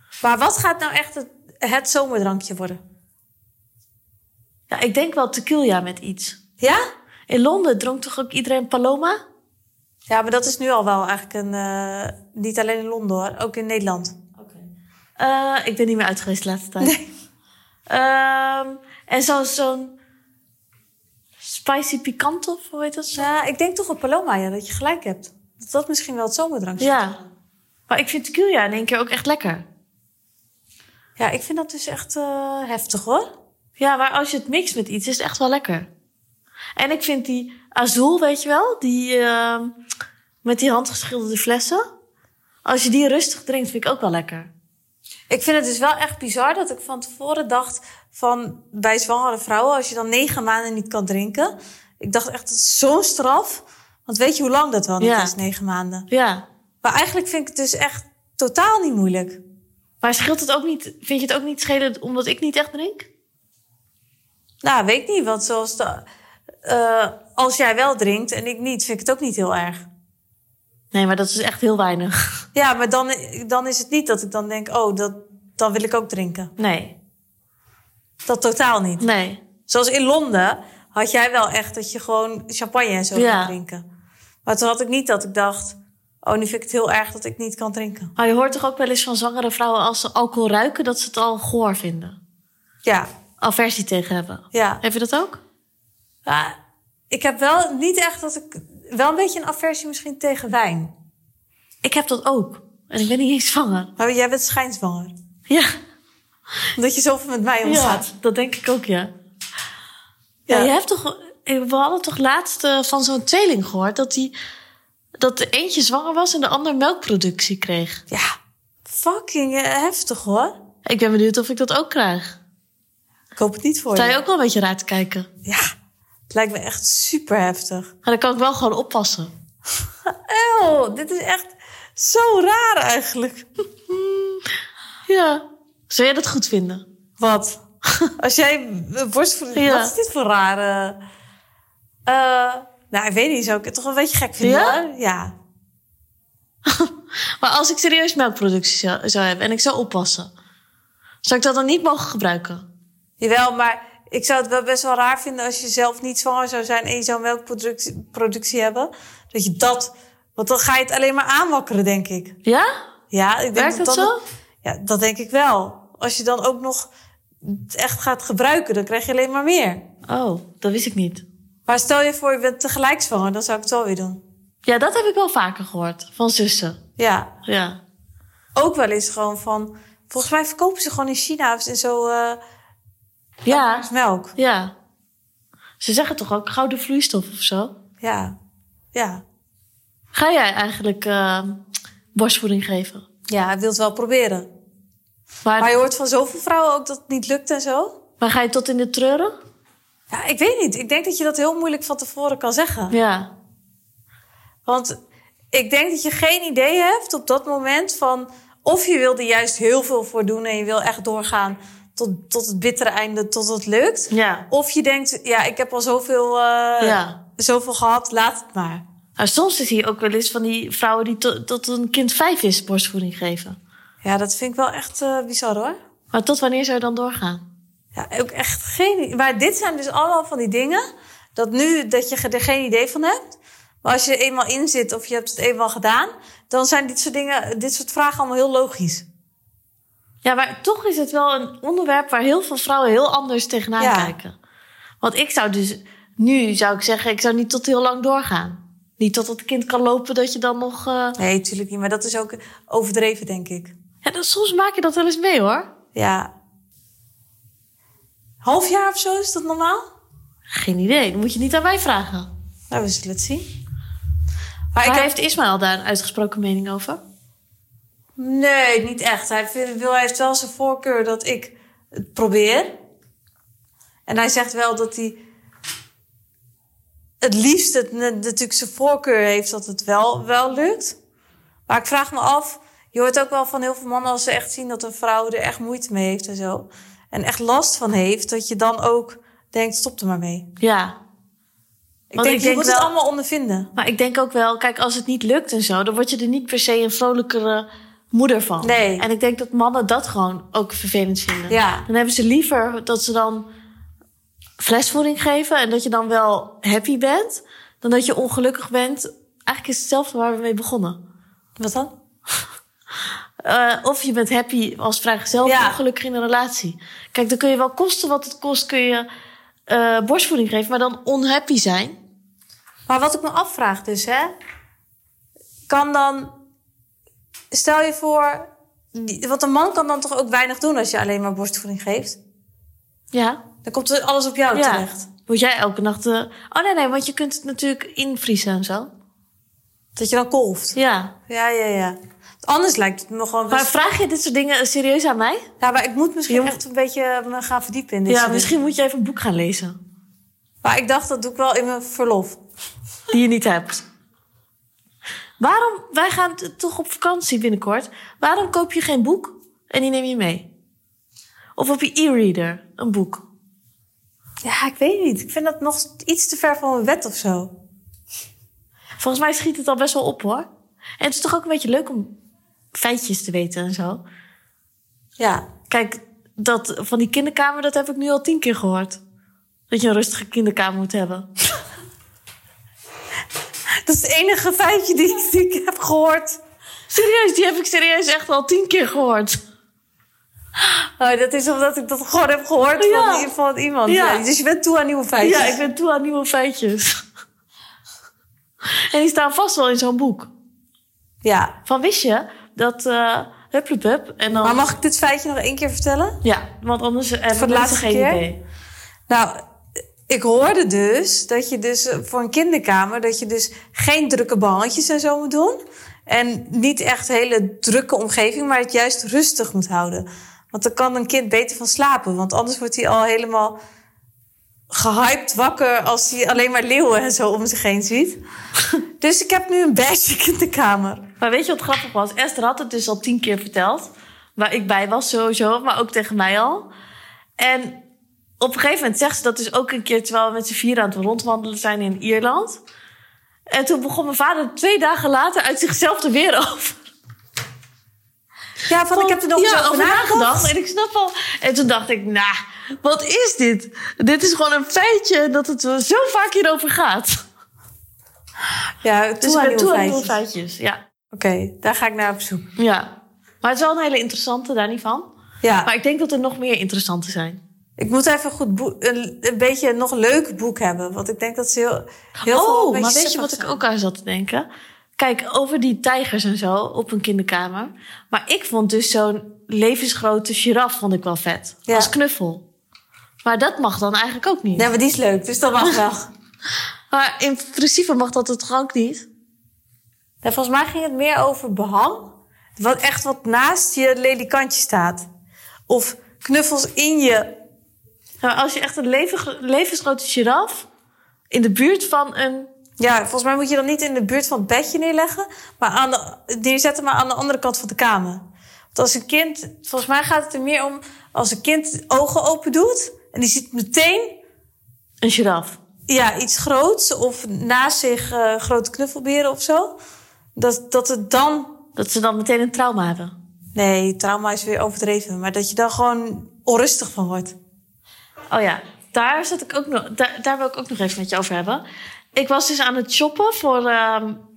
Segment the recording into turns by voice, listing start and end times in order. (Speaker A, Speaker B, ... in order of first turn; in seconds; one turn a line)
Speaker A: 0.2-2.8
Speaker B: 4.7-6.4
Speaker B: 7.3-9.2
Speaker A: 10.1-14.1
Speaker B: 14.4-14.7
Speaker B: 15.2-16.9
Speaker A: 16.8-17.1
Speaker B: 17.9-19.9
Speaker B: 21.4-23.2
Speaker A: 23.2-27.2
Speaker B: 26.8-27.2
Speaker B: 27.9-29.6
Speaker A: 31.2-33.3
Speaker B: 33.8-35.9
Speaker B: 36.8-39.7
Speaker B: 40.4-41.8
Speaker B: 42.6-44.5
Speaker A: 45.3-56.0
Speaker B: 55.0-55.3
Speaker B: 56.1-56.4
Speaker A: 56.8-59.4
Speaker B: 60.0-63.1
Speaker A: 64.6-66.0
Speaker A: 66.6-69.8
Speaker B: 70.9-72.2
Speaker A: 72.5-76.5
Speaker B: 76.6-77.0
Speaker A: 78.2-79.0
Speaker B: 79.0-79.4
Speaker A: 79.7-83.8
Speaker B: 83.1-83.5
Speaker A: 84.4-88.1
Speaker B: 88.2-92.2
Speaker B: 93.4-95.4
Speaker A: 94.5-94.8
Speaker A: 96.2-96.5
Speaker A: 97.1-100.9
Speaker B: 101.8-103.9
Speaker A: 104.0-105.1
Speaker A: 106.8-108.1
Speaker B: 107.6-109.1
Speaker B: 110.5-114.3
Speaker B: 115.2-118.0
Speaker A: 118.8-120.5
Speaker B: 120.8-122.4
Speaker A: 123.3-124.2
Speaker B: 123.9-125.3
Speaker A: 125.4-125.7
Speaker A: 126.3-127.9
Speaker B: 128.0-129.3
Speaker A: 130.1-133.5
Speaker B: 135.1-136.8
Speaker A: 137.2-137.6
Speaker A: 138.2-141.0
Speaker B: 139.5-139.9
Speaker A: 142.1-145.3
Speaker B: 144.4-144.8
Speaker B: 146.7-150.3
Speaker B: 151.2-152.6
Speaker A: 153.2-162.3
Speaker A: 163.1-166.9
Speaker B: 163.5-164.2
Speaker A: 167.4-169.8
Speaker B: 170.1-171.2
Speaker A: 171.7-174.2
Speaker B: 174.6-176.8
Speaker A: 177.0-177.3
Speaker B: 177.4-177.8
Speaker A: 178.5-182.4
Speaker B: 183.4-183.8
Speaker A: 183.5-184.3
Speaker B: 184.4-184.7
Speaker B: 185.8-187.7
Speaker A: 188.0-188.3
Speaker A: 188.9-189.2
Speaker B: 190.1-191.6
Speaker B: 192.1-193.0
Speaker A: 193.3-194.5
Speaker B: 195.4-195.7
Speaker A: 195.6-198.0
Speaker B: 198.2-199.3
Speaker A: 200.1-202.9
Speaker B: 202.9-203.3
Speaker A: 204.7-204.9
Speaker A: 205.5-218.8
Speaker B: 214.1-214.4
Speaker B: 216.8-217.2
Speaker B: 219.2-223.6
Speaker A: 224.0-225.8
Speaker B: 226.1-227.4
Speaker A: 227.9-230.8
Speaker A: 231.3-233.3
Speaker A: 233.8-239.1
Speaker B: 240.2-244.3
Speaker A: 243.8-244.1
Speaker B: 245.0-251.2
Speaker A: 251.2-253.7
Speaker B: 254.0-255.7
Speaker A: 255.9-256.3
Speaker A: 258.4-259.8
Speaker B: 260.5-262.3
Speaker A: 262.7-263.5
Speaker A: 264.7-265.1
Speaker B: 264.8-267.0
Speaker A: 268.2-272.7
Speaker A: 274.1-275.2
Speaker A: 277.2-280.9
Speaker A: 281.7-290.5
Speaker B: 290.6-291.0
Speaker A: 292.1-293.7
Speaker B: 292.2-292.9
Speaker B: 293.8-303.4
Speaker A: 298.6-299.0
Speaker A: 301.5-301.9
Speaker B: 304.6-311.0
Speaker A: 311.6-311.9
Speaker B: 313.4-319.1
Speaker A: 315.4-315.8
Speaker B: 319.7-322.0
Speaker A: 322.9-324.3
Speaker A: 325.7-326.3
Speaker A: 327.5-332.2
Speaker B: 333.1-333.4
Speaker A: 333.6-335.1
Speaker B: 334.5-338.9
Speaker A: 339.9-340.8
Speaker B: 340.7-341.1
Speaker A: 341.3-343.7
Speaker B: 343.5-345.4
Speaker A: 345.6-348.5
Speaker B: 346.3-346.6
Speaker B: 348.1-349.8
Speaker A: 350.6-352.4
Speaker B: 353.1-353.8
Speaker B: 355.4-360.5
Speaker B: 361.6-363.2
Speaker A: 364.4-367.5
Speaker B: 369.0-370.5
Speaker B: 371.0-372.1
Speaker B: 372.7-374.0
Speaker A: 375.2-375.5
Speaker B: 375.7-379.0
Speaker B: 379.7-381.3
Speaker A: 383.8-386.4
Speaker B: 386.9-389.4
Speaker A: 390.6-395.6
Speaker B: 392.8-393.3
Speaker B: 393.9-394.2
Speaker B: 395.2-397.0
Speaker B: 398.9-400.3
Speaker A: 401.2-401.5
Speaker B: 401.6-404.6
Speaker A: 404.4-406.2
Speaker B: 406.2-408.4
Speaker A: 407.3-408.2
Speaker A: 409.1-409.4
Speaker A: 410.1-423.6
Speaker A: 424.7-428.2
Speaker A: 429.0-431.0
Speaker B: 431.2-436.7
Speaker B: 437.4-437.8
Speaker B: 438.4-442.6
Speaker B: 443.5-446.8
Speaker A: 448.7-450.5
Speaker B: 448.9-457.2
Speaker A: 458.8-460.1
Speaker B: 459.2-460.8
Speaker A: 461.1-462.4
Speaker B: 462.6-465.1
Speaker A: 465.4-465.7
Speaker B: 465.6-467.4
Speaker A: 467.8-473.6
Speaker B: 472.2-474.4
Speaker B: 475.0-482.4
Speaker A: 481.7-481.9
Speaker B: 483.2-484.7
Speaker A: 484.6-486.1
Speaker B: 486.9-489.1
Speaker A: 490.2-495.1
Speaker A: 495.7-497.3
Speaker B: 498.2-500.7
Speaker B: 501.3-502.5
Speaker A: 502.8-514.1
Speaker B: 515.0-515.6
Speaker A: 515.9-519.7
Speaker A: 520.4-521.5
Speaker B: 521.8-523.1
Speaker A: 523.5-527.3
Speaker B: 528.3-531.6
Speaker B: 532.1-534.2